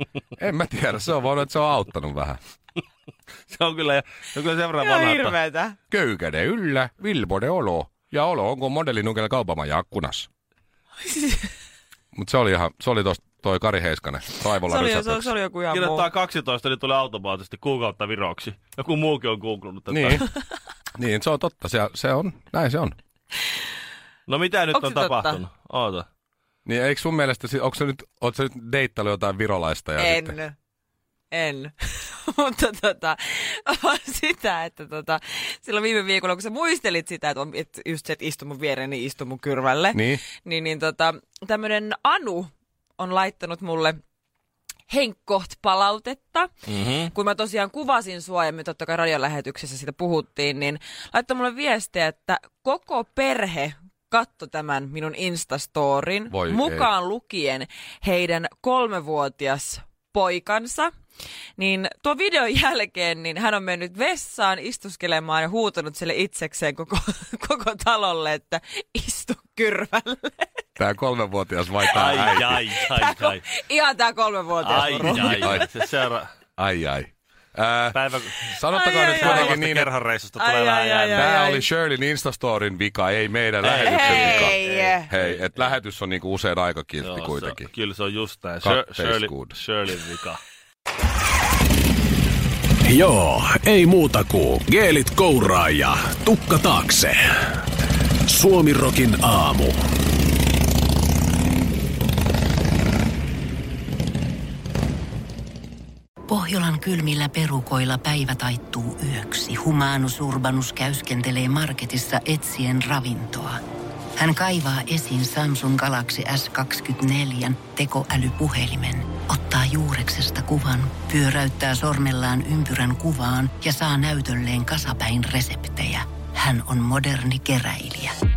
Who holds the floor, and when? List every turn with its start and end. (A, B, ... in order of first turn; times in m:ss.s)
0:00.4-0:02.4 A
0:03.5-0:05.4 B
0:04.8-0:05.8 C
0:05.9-0:10.3 A
0:11.0-0:11.5 C
0:12.1-0:15.3 A
0:14.6-0:16.1 C
0:15.7-0:20.3 B
0:19.9-0:20.2 A
0:21.0-0:23.0 A
0:24.3-0:26.1 B
0:24.7-0:25.4 C
0:26.6-0:30.4 A
0:30.0-0:30.5 C
0:31.3-0:44.0 C
0:39.9-0:40.2 A
0:44.9-0:46.5 C
0:46.7-0:47.1 B
0:47.1-1:00.9 C
0:56.3-0:56.9 A
1:01.6-1:10.5 C
1:10.8-1:12.6 A
1:11.9-1:13.5 B
1:12.8-1:15.8 C
1:14.6-1:16.3 B
1:14.7-1:15.7 A
1:16.6-1:19.9 A
1:17.9-1:18.5 B
1:18.7-1:19.6 C
1:19.2-1:21.3 B
1:20.4-1:21.6 C
1:21.1-1:27.7 A
1:23.6-1:25.8 B
1:23.8-1:25.1 C
1:27.0-1:30.4 B
1:28.6-1:29.6 A
1:32.9-1:37.2 D
1:38.3-1:39.7 D
1:46.3-1:53.6 E
1:54.2-2:08.1 E